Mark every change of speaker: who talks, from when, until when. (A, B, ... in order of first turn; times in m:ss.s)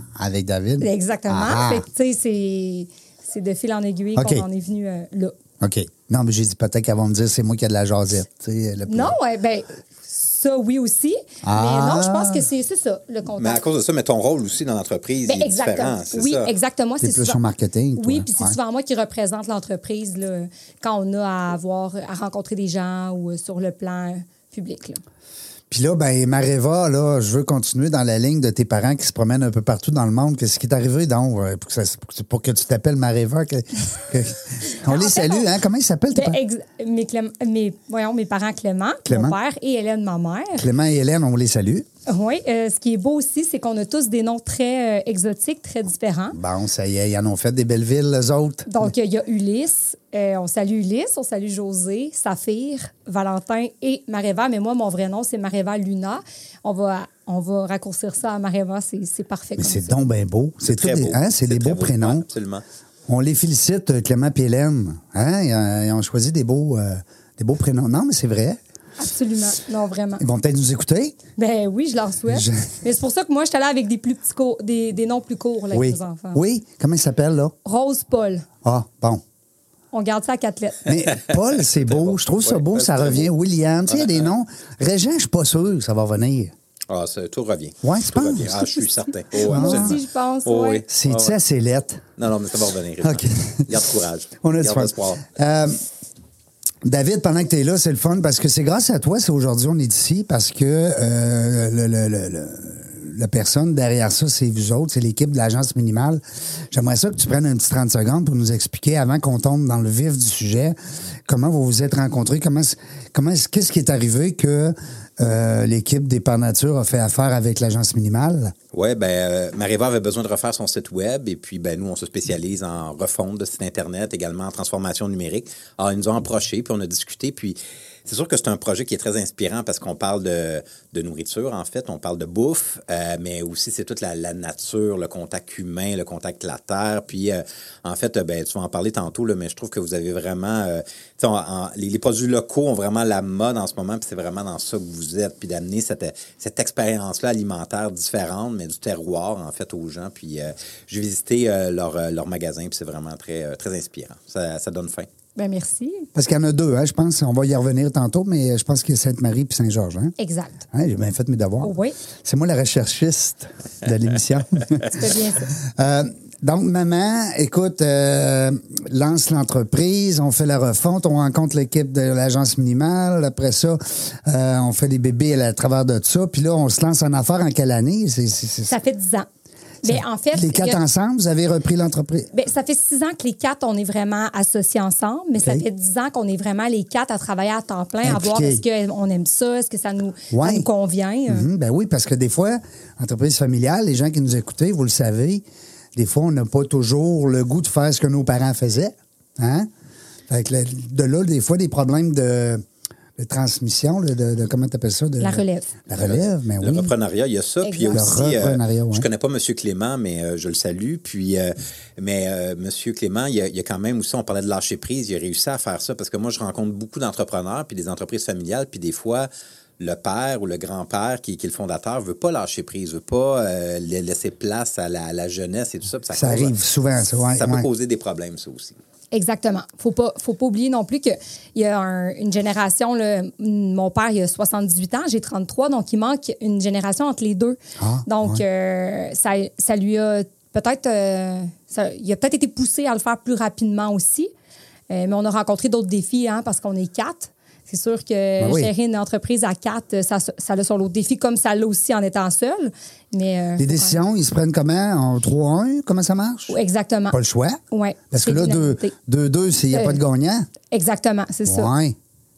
0:00.2-0:01.9 A
0:00.8-0:05.4 B
0:04.2-0:04.4 A
0:05.6-0:09.1 A
0:08.9-0:13.6 B
0:11.4-0:12.4 A
0:13.4-0:16.5 C
0:15.2-0:17.4 B
0:17.0-0:18.6 A
0:18.0-0:25.0 B
0:25.7-0:36.4 A
0:34.8-0:35.5 B
0:36.1-0:40.6 B
0:39.1-0:39.4 A
0:40.6-0:41.8 A
0:42.0-0:46.4 B
0:46.3-0:48.9 A
0:48.7-0:59.9 B
0:59.6-1:02.2 A
1:00.6-1:02.6 C
1:03.1-1:08.6 A
1:09.0-1:10.2 B
1:10.2-1:11.2 A
1:11.4-1:16.4 B
1:12.3-1:12.6 A
1:15.7-1:17.5 A
1:17.6-1:18.4 B
1:18.6-1:19.2 A
1:19.9-1:20.9 B
1:20.8-1:26.5 A
1:21.3-1:23.3 C
1:26.9-1:31.4 C
1:27.8-1:30.0 A
1:29.4-1:30.8 B
1:30.9-1:32.0 A
1:32.2-1:35.3 C
1:33.0-1:33.7 A
1:34.4-1:35.8 A
1:36.8-1:58.5 A
1:58.7-2:35.1 C
2:35.4-2:36.0 B
2:36.1-2:40.1 A
2:40.2-2:40.6 B
2:40.7-2:41.7 A
2:41.6-2:42.0 B
2:42.2-2:44.9 A
2:44.9-2:45.5 B
2:45.7-2:58.8 A
2:58.7-2:59.3 B
2:59.8-3:00.8 B
2:59.8-3:02.3 A
3:02.3-3:11.5 B
3:05.4-3:05.6 A
3:08.0-3:08.6 A
3:10.3-3:10.7 A
3:11.3-3:15.4 A
3:15.9-3:19.7 A
3:20.3-3:22.6 A
3:23.2-3:26.9 A
3:25.2-3:25.7 B
3:25.9-3:46.5 C
3:27.6-3:28.1 B
3:27.9-3:29.1 A
3:46.1-3:47.7 A
3:47.3-3:48.8 C
3:49.1-4:04.3 B
3:57.8-3:58.4 A
4:04.9-4:14.0 B
4:08.4-4:08.7 A
4:13.6-4:16.6 A
4:16.5-4:17.2 B
4:17.1-4:17.6 A
4:17.7-4:18.9 B
4:18.1-4:20.5 A
4:19.7-4:20.0 B
4:20.7-4:21.7 B
4:21.4-4:22.0 A